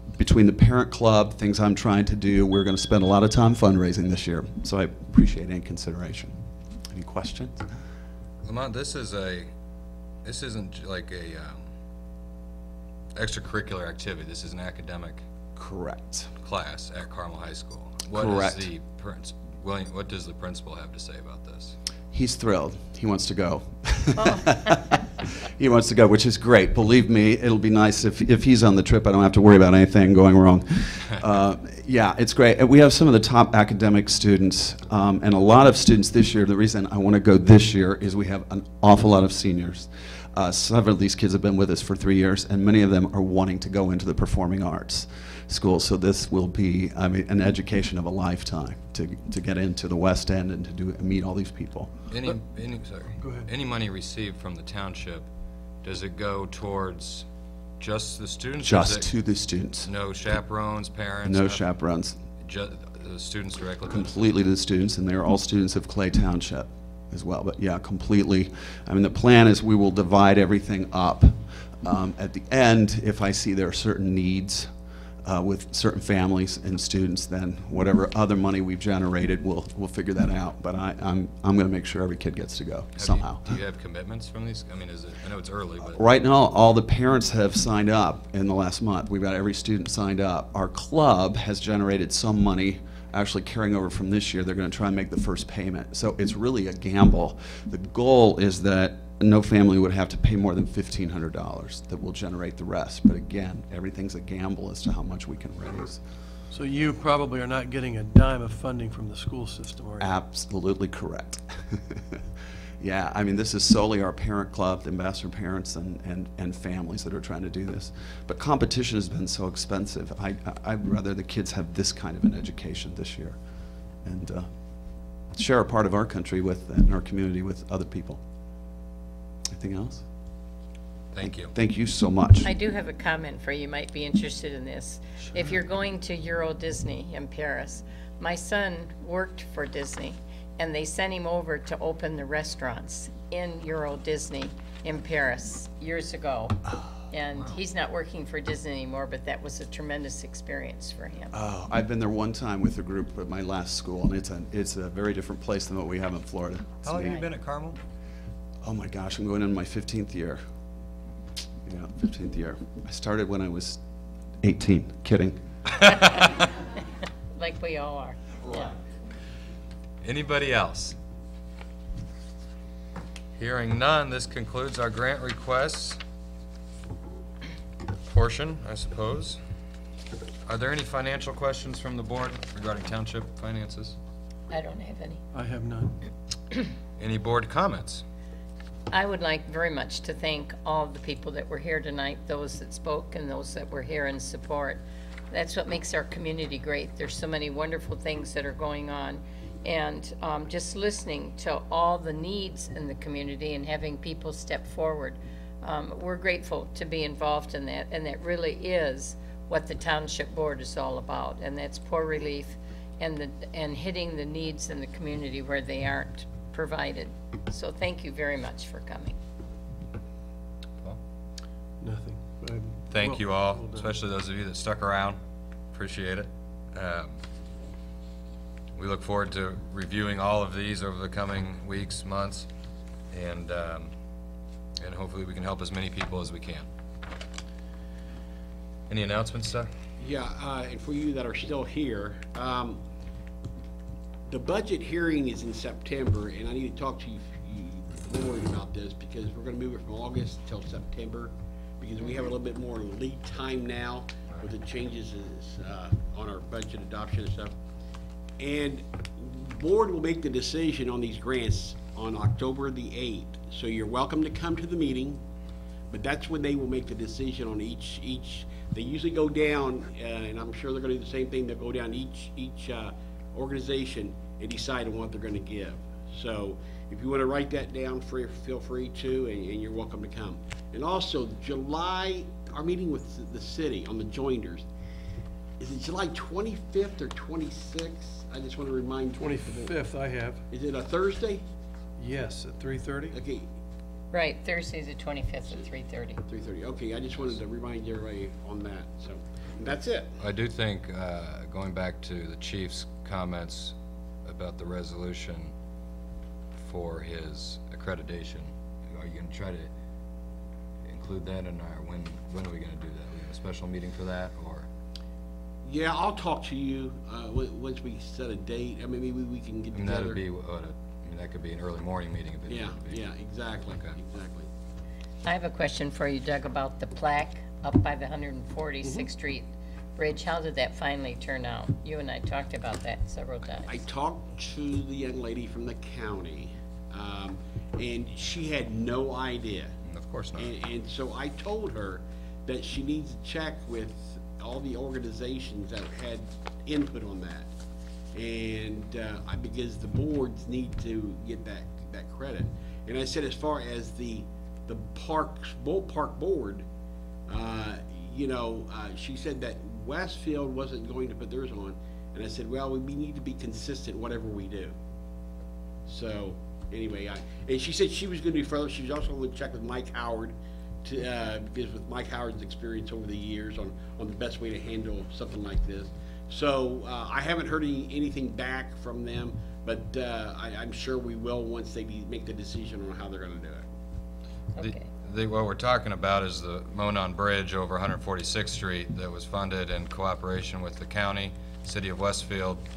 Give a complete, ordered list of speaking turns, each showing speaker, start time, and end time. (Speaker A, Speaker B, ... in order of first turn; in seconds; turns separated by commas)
Speaker A: 0.2-6.3, Speaker A: 6.9-7.6, Speaker B: 8.4-9.5, Speaker B: 10.2-11.7, Speaker B: 13.2-15.2, Speaker A: 15.6-16.3, Speaker B: 16.4-21.8, Speaker A: 18.1-18.7, Speaker A: 22.1-51.9, Speaker C: 24.2-25.0, Speaker B: 52.1-55.3, Speaker D: 53.2-53.5, Speaker B: 55.8-57.3, Speaker B: 57.8-61.8, Speaker A: 58.6-59.9, Speaker A: 61.2-62.2, Speaker B: 62.4-64.1, Speaker A: 63.9-74.7, Speaker A: 75.2-83.6, Speaker B: 83.0-86.0, Speaker A: 85.8-106.0, Speaker D: 106.5-110.2, Speaker A: 110.0-112.0, Speaker A: 112.8-123.4, Speaker A: 124.0-124.5, Speaker A: 125.4-128.2, Speaker A: 129.5-130.1, Speaker B: 131.1-131.5, Speaker A: 131.2-132.5, Speaker C: 132.4-151.3, Speaker A: 151.3-157.2, Speaker B: 156.8-157.8, Speaker A: 158.6-160.4, Speaker A: 161.7-163.8, Speaker A: 164.4-165.4, Speaker C: 165.8-166.5, Speaker C: 167.3-168.7, Speaker B: 170.0-171.0, Speaker B: 173.4-176.0, Speaker B: 178.0-179.4, Speaker B: 180.5-184.0, Speaker C: 184.5-185.2, Speaker D: 185.3-186.0, Speaker B: 187.0-188.0, Speaker C: 188.9-219.2, Speaker D: 221.8-223.9, Speaker B: 222.9-225.2, Speaker B: 225.7-227.2, Speaker B: 228.8-232.5, Speaker B: 233.1-233.9, Speaker B: 234.8-236.7, Speaker B: 238.9-239.7, Speaker E: 240.0-242.8, Speaker E: 244.3-257.5, Speaker E: 258.4-265.2, Speaker E: 265.9-284.7, Speaker E: 285.6-289.8, Speaker D: 289.2-290.4, Speaker E: 290.5-291.4, Speaker D: 292.0-293.2, Speaker E: 293.1-293.5, Speaker C: 294.1-296.2, Speaker E: 296.3-300.1, Speaker B: 300.2-303.7, Speaker B: 304.2-305.5, Speaker B: 306.6-309.7, Speaker B: 310.9-314.7, Speaker E: 315.6-320.2, Speaker B: 319.7-323.0, Speaker E: 322.5-324.5, Speaker B: 323.6-324.0, Speaker C: 325.2-333.8, Speaker E: 333.6-339.8, Speaker B: 339.9-340.5, Speaker E: 340.4-347.5, Speaker E: 348.1-356.6, Speaker E: 357.3-364.8, Speaker E: 365.9-383.6, Speaker C: 384.6-384.9, Speaker B: 384.6-392.6